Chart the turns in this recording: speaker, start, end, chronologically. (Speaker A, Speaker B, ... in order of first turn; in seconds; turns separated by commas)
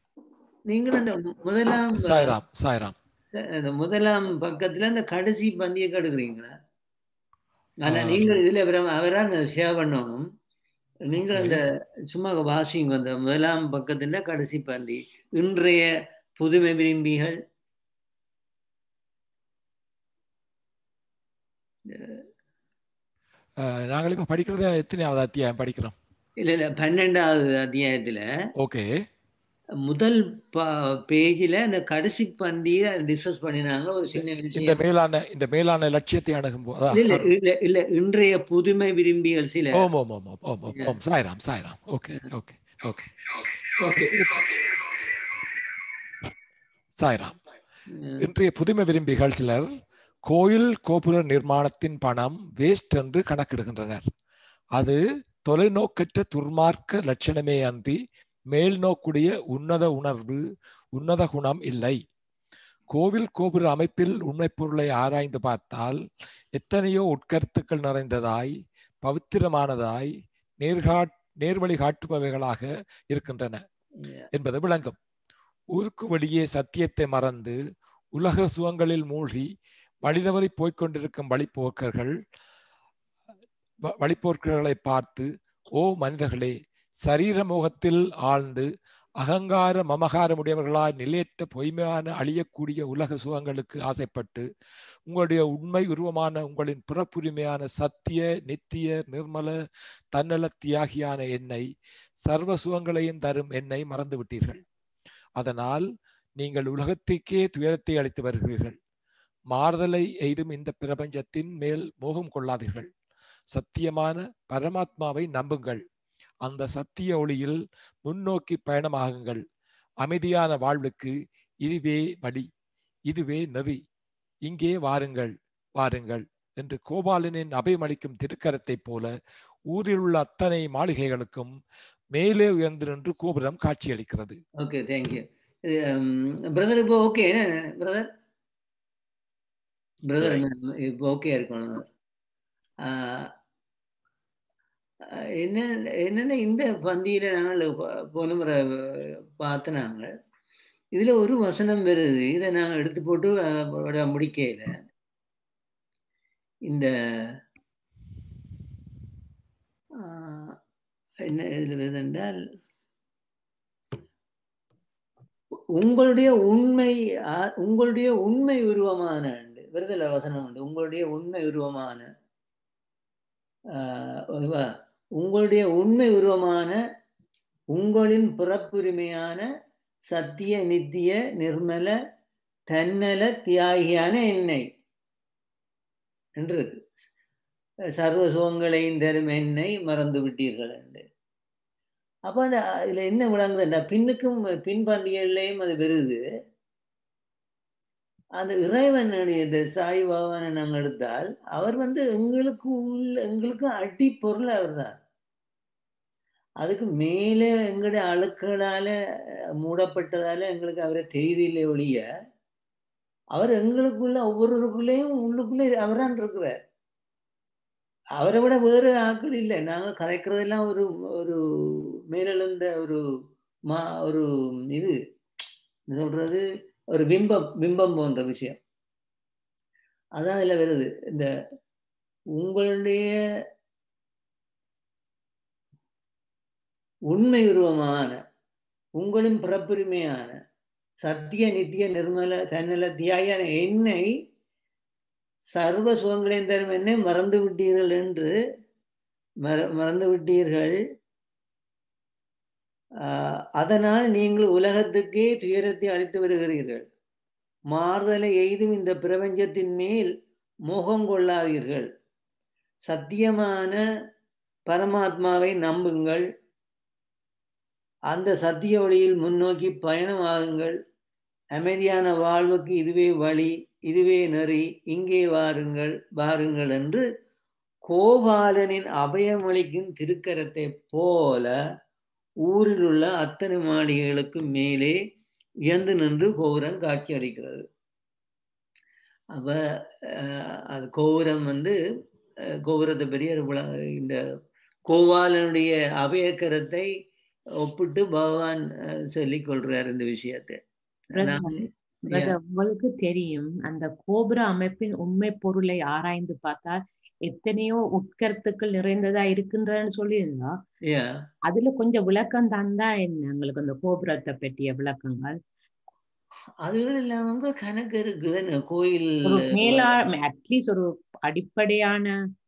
Speaker A: 0.7-2.3, Speaker B: 1.9-3.0, Speaker A: 3.3-6.5, Speaker A: 7.8-10.2, Speaker B: 7.9-8.4, Speaker A: 11.1-15.9, Speaker B: 11.3-11.6, Speaker A: 16.4-17.4, Speaker A: 21.9-22.2, Speaker B: 23.6-25.9, Speaker A: 26.4-28.2, Speaker B: 28.6-28.9, Speaker A: 29.9-34.8, Speaker B: 34.6-37.3, Speaker A: 36.9-39.9, Speaker B: 39.7-43.1, Speaker B: 43.9-44.6, Speaker B: 47.0-47.4, Speaker A: 47.9-48.2, Speaker B: 48.2-49.7, Speaker B: 50.3-54.1, Speaker B: 54.8-58.0, Speaker B: 58.5-60.4, Speaker B: 61.0-62.0, Speaker B: 62.9-66.0, Speaker B: 66.5-68.5, Speaker B: 69.0-73.6, Speaker B: 74.3-75.0, Speaker B: 75.8-77.6, Speaker B: 78.2-79.5, Speaker B: 80.0-82.1, Speaker B: 83.9-86.5, Speaker B: 87.0-88.7, Speaker B: 89.2-94.4, Speaker B: 95.1-99.5, Speaker B: 100.1-101.7, Speaker B: 102.3-104.6, Speaker B: 105.4-105.8, Speaker B: 106.4-108.8, Speaker B: 109.5-112.9, Speaker B: 113.5-115.8, Speaker B: 116.4-119.4, Speaker B: 120.0-122.5, Speaker B: 123.1-123.8, Speaker B: 124.5-129.1, Speaker B: 129.7-131.5, Speaker B: 132.1-134.4, Speaker A: 134.6-138.1, Speaker A: 140.1-141.8, Speaker A: 142.8-143.3, Speaker A: 145.4-150.1, Speaker A: 151.0-154.7, Speaker A: 160.0-160.6, Speaker A: 161.3-162.4, Speaker A: 165.8-172.1, Speaker A: 173.7-176.8, Speaker A: 177.7-179.4, Speaker A: 180.1-181.9, Speaker A: 182.7-184.7, Speaker A: 186.4-187.0, Speaker A: 188.0-191.0, Speaker A: 192.3-196.2, Speaker A: 198.4-204.9, Speaker A: 206.6-208.9, Speaker A: 209.6-212.0, Speaker A: 213.3-216.6, Speaker A: 218.2-223.0, Speaker A: 223.7-225.0, Speaker A: 225.9-228.6, Speaker A: 230.2-231.3, Speaker A: 232.4-233.1, Speaker A: 237.1-238.2, Speaker A: 239.0-240.4, Speaker A: 241.0-244.1, Speaker A: 245.6-248.3, Speaker A: 249.4-250.8, Speaker A: 253.1-256.9, Speaker A: 257.7-260.1, Speaker A: 260.7-261.9, Speaker A: 262.9-263.8, Speaker A: 264.7-266.3, Speaker A: 268.1-270.8, Speaker A: 271.6-277.1, Speaker A: 277.9-281.5, Speaker A: 282.5-285.0, Speaker A: 285.7-287.6, Speaker A: 289.4-291.8, Speaker A: 292.7-294.2, Speaker A: 294.9-296.9, Speaker A: 297.6-300.6, Speaker C: 301.2-310.6, Speaker A: 301.2-302.3, Speaker C: 311.5-315.4, Speaker A: 316.6-319.9, Speaker C: 319.2-322.1